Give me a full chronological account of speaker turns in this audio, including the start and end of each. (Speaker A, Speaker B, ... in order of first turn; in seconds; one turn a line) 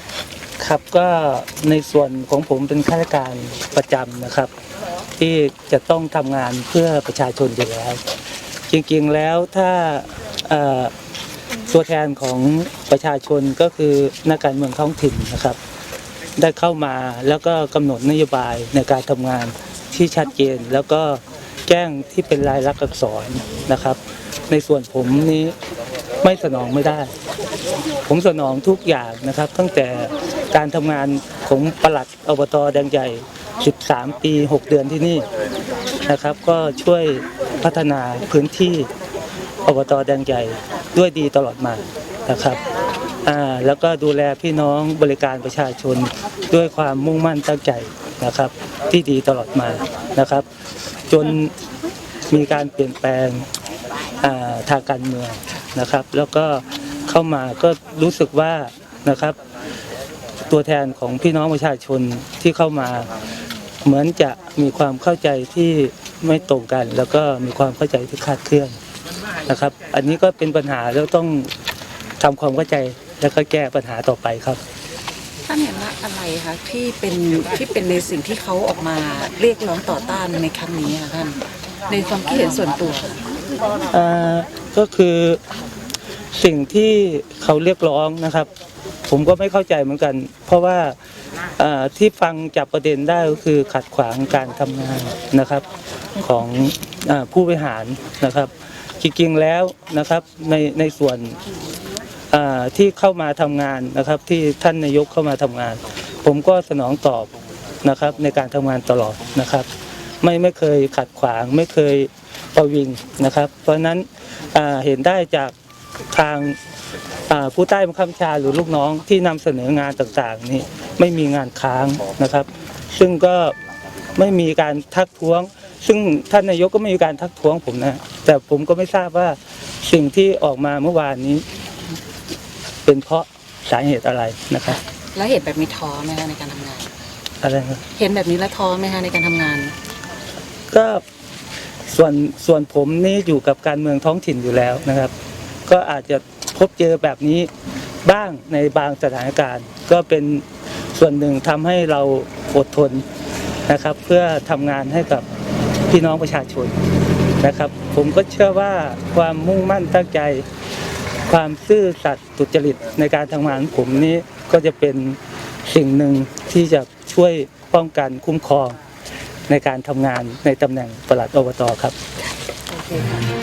Speaker A: 0.6-4.5
Speaker A: 5.2-8.0
Speaker A: 8.7-10.9
Speaker A: 11.7-15.6
Speaker A: 16.4-25.5
Speaker A: 26.2-27.1
Speaker A: 28.1-35.2
Speaker A: 36.0-38.9
Speaker A: 39.6-42.6
Speaker A: 43.2-50.5
Speaker A: 51.1-51.5
Speaker A: 52.3-53.5
Speaker A: 54.2-59.4
Speaker A: 60.5-63.1
Speaker A: 63.8-68.8
Speaker A: 69.5-71.5
Speaker A: 72.2-74.6
Speaker B: 75.5-83.2
Speaker A: 83.9-85.4
Speaker A: 86.3-88.5
Speaker A: 89.1-91.0
Speaker A: 91.6-95.7
Speaker A: 96.2-101.4
Speaker A: 102.3-107.3
Speaker A: 107.8-109.7
Speaker A: 110.2-115.5
Speaker A: 116.1-116.6
Speaker A: 117.3-123.5
Speaker A: 124.2-131.4
Speaker A: 132.8-134.8
Speaker B: 134.7-136.9
Speaker A: 137.4-137.8
Speaker B: 137.9-139.7
Speaker A: 140.7-141.0
Speaker A: 141.9-145.1
Speaker A: 145.7-147.5
Speaker A: 148.0-153.1
Speaker A: 153.7-155.3
Speaker A: 155.9-156.8
Speaker A: 157.4-160.4
Speaker A: 161.3-168.8
Speaker A: 169.5-171.9
Speaker B: 172.9-173.2